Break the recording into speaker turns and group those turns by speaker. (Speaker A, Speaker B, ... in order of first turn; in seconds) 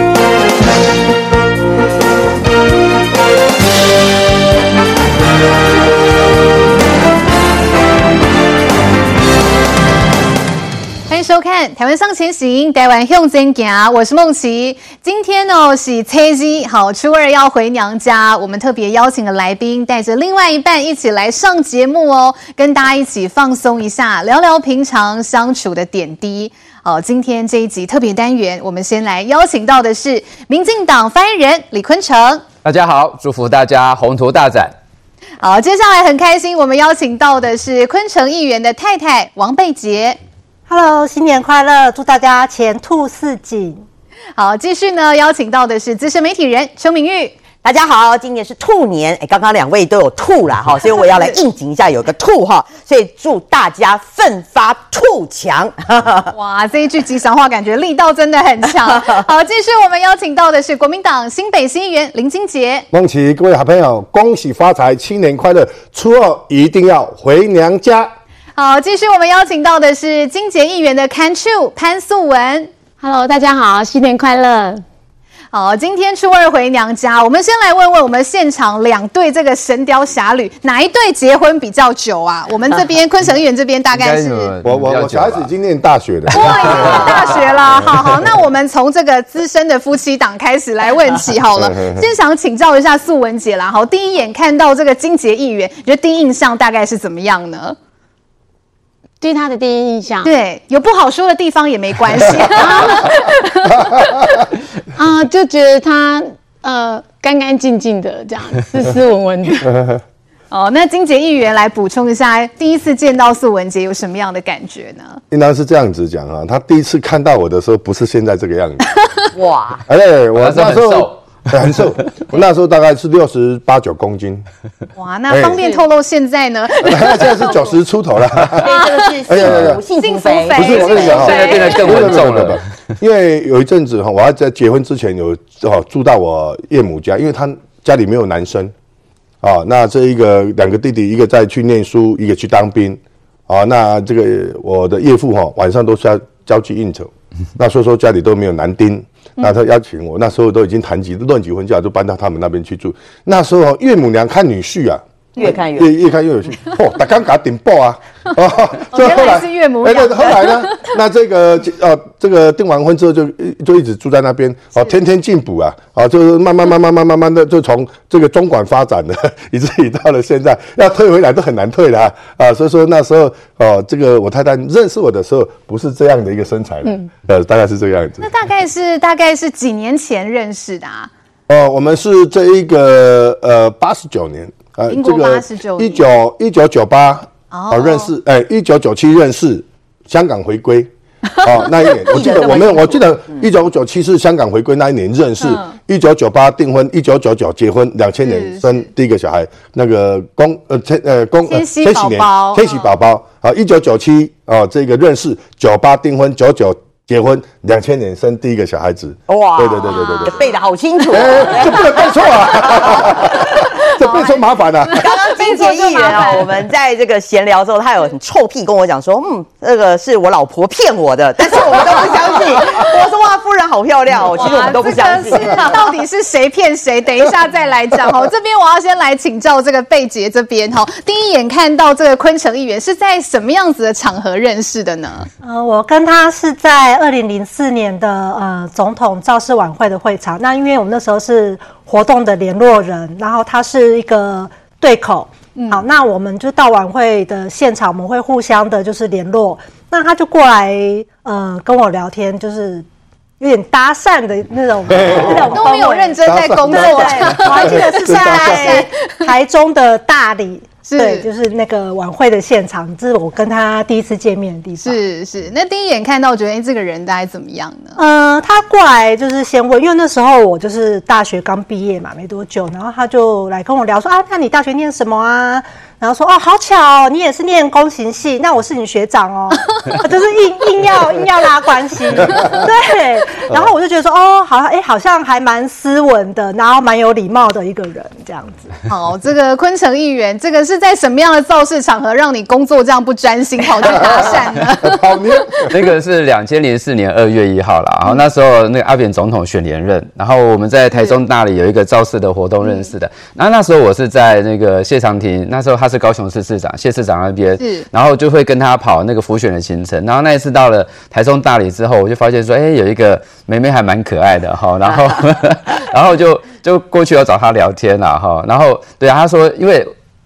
Speaker A: 11.1-32.4, 35.4-40.2, 44.4-47.4, 56.3-62.9, 68.5-72.7, 75.5-84.5, 86.3-97.8, 100.2-104.4, 110.5-115.2, 125.0-127.7, 128.6-129.3, 129.9-131.9, 158.9-160.9, 178.2-181.1, 184.9-186.0, 187.5-188.1, 191.4-192.0, 195.4-195.7, 198.2-198.6, 201.5-202.9, 209.9-210.4, 213.7-216.5, 224.3-235.3, 245.5-245.8, 255.5-259.3, 260.9-261.3, 264.8-268.0, 288.9-295.2, 300.9-301.2, 302.6-302.9, 307.6-307.8
Speaker B: 32.6-34.7, 83.9-85.5, 86.9-87.4, 120.4-121.2, 130.7-132.7, 295.7-319.9
Speaker C: 40.7-43.8, 235.4-252.8, 253.4-265.0, 268.0-288.7
Speaker D: 47.6-56.3, 119.3-119.8, 128.6-131.6, 155.4-155.9, 192.1-193.5, 209.3-213.4, 214.9-226.0
Speaker E: 62.9-68.1, 84.6-88.3, 91.5-92.0, 103.8-104.4, 109.6-110.0, 115.3-119.0, 119.9-124.5, 125.3-125.6, 126.8-128.6, 129.3-129.8, 130.6-138.7, 139.4-178.3, 181.5-190.9, 191.4-210.3, 211.1-215.0, 254.9-255.6, 256.2-258.9, 293.8-295.8
Speaker F: 73.0-74.8, 99.2-100.3, 102.6-103.1, 104.9-109.7, 176.8-177.1